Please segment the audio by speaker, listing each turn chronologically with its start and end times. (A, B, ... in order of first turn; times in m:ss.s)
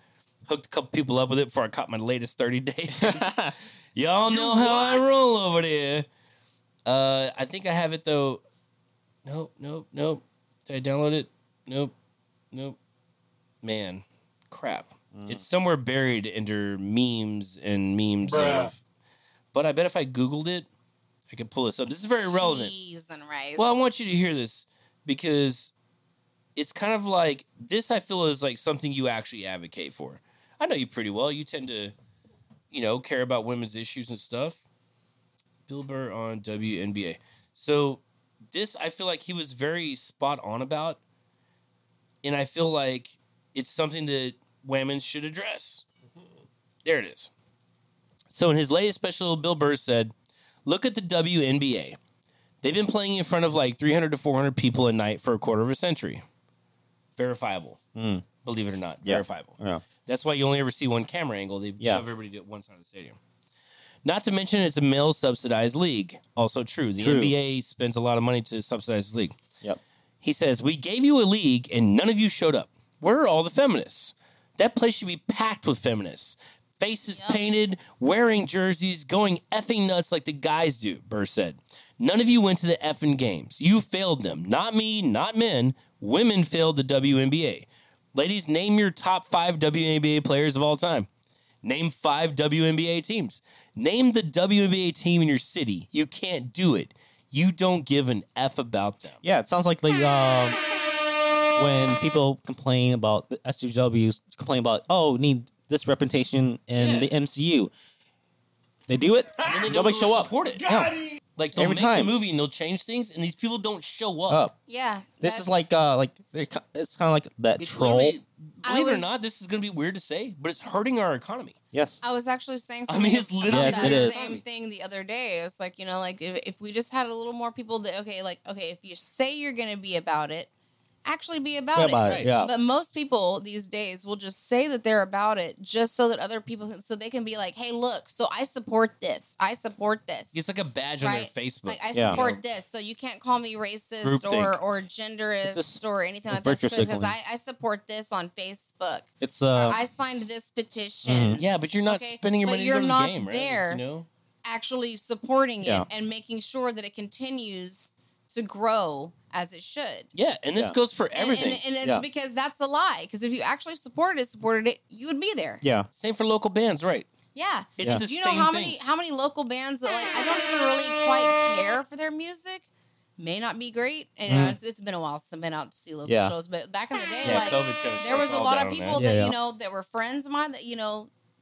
0:00.5-0:06.1 A
0:03.0-0:03.5 B
0:04.3-0:05.0 B
0:06.9-0:08.4 A
0:09.2-0:11.9 A
0:12.5-0:12.8 A
0:13.6-0:18.8 A
0:15.1-0:15.4 B
0:19.5-0:20.7 A
0:21.3-0:22.7 A
0:22.1-0:23.7 C
0:23.6-0:25.7 A
0:26.6-0:31.9 A
0:32.7-0:34.6 A
0:35.7-0:41.0 A
0:42.2-0:45.8 A
0:46.8-0:47.3 A
0:48.3-0:50.1 A
0:50.7-0:52.0 A
0:52.6-0:56.2 A
0:57.2-0:57.8 A
0:58.0-0:58.2 B
0:58.4-1:03.2 A
0:59.0-0:59.8 B
1:04.0-1:09.4 A
1:07.0-1:07.4 B
1:10.2-1:31.1 A
1:17.1-1:17.4 C
1:31.6-1:39.2 A
1:39.2-1:40.6 B
1:41.6-1:47.7 B
1:46.8-1:47.1 A
1:48.9-1:51.0 B
1:49.4-1:50.7 A
1:51.4-1:54.5 A
1:51.5-1:52.2 B
1:54.3-1:54.5 B
1:54.7-1:55.6 C
1:55.2-1:58.2 B
1:57.6-2:01.6 A
1:58.6-1:59.2 C
2:01.7-2:02.0 B
2:02.0-2:10.5 C
2:02.9-2:04.4 A
2:03.5-2:04.4 B
2:11.0-2:20.4 C
2:11.7-2:12.5 B
2:12.0-2:12.3 A
2:20.3-2:22.4 A
2:21.0-2:33.8 C
2:21.9-2:22.2 B
2:24.0-2:24.6 A
2:25.4-2:27.2 B
2:29.2-2:29.8 B
2:31.1-2:31.4 B
2:31.4-2:34.1 A
2:34.4-2:40.1 C
2:35.6-2:35.9 B
2:40.1-2:41.6 A
2:41.1-2:45.6 C
2:45.6-2:45.9 B
2:46.0-2:47.1 A
2:47.4-3:01.1 C
2:47.8-2:48.8 A
2:54.3-2:54.6 B
2:56.0-2:56.3 B
2:57.2-2:59.0 A
2:59.0-2:59.4 B